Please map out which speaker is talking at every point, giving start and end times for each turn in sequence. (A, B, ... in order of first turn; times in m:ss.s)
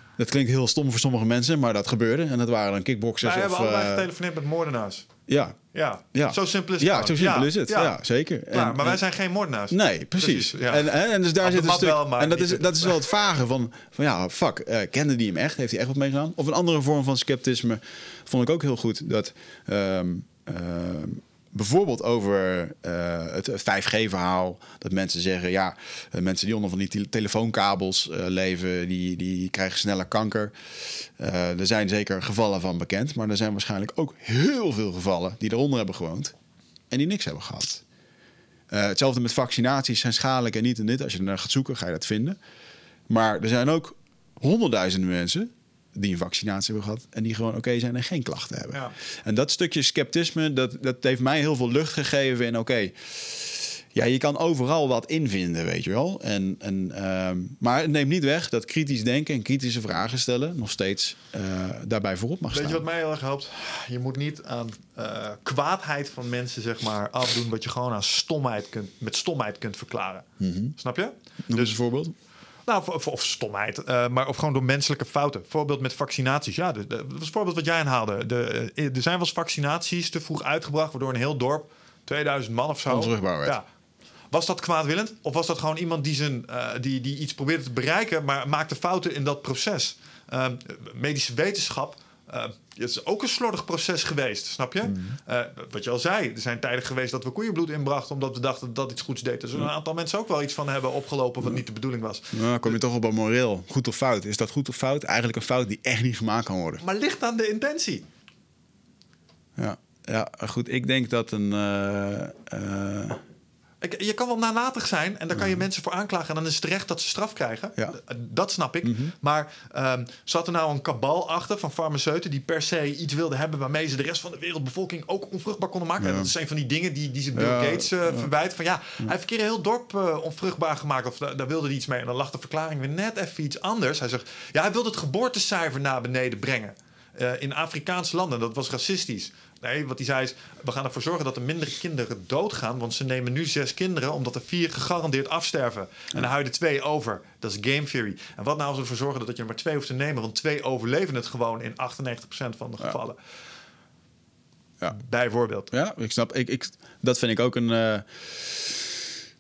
0:00.2-0:04.1 A
0:03.2-0:05.1 B
0:05.3-0:05.6 A
0:05.7-0:08.0 B
0:06.1-0:09.0 A
0:08.5-0:13.1 B
0:09.7-0:36.3 A
0:36.9-0:37.8 A
0:38.7-0:42.4 A
0:43.1-1:02.9 A
1:02.5-1:10.2 B
1:10.4-1:10.8 A
1:10.8-1:11.8 B
1:11.4-1:12.2 A
1:12.7-1:23.6 B
1:22.9-1:23.6 A
1:24.3-1:42.8 B
1:34.8-1:35.2 A
1:42.3-1:46.8 A
1:46.8-1:48.0 B
1:49.6-1:53.2 A
1:53.8-2:33.2 B
1:55.3-1:55.6 A
1:58.8-1:59.1 A
2:06.0-2:06.3 A
2:07.4-2:08.3 A
2:34.9-2:35.7 B
2:35.7-2:38.9 A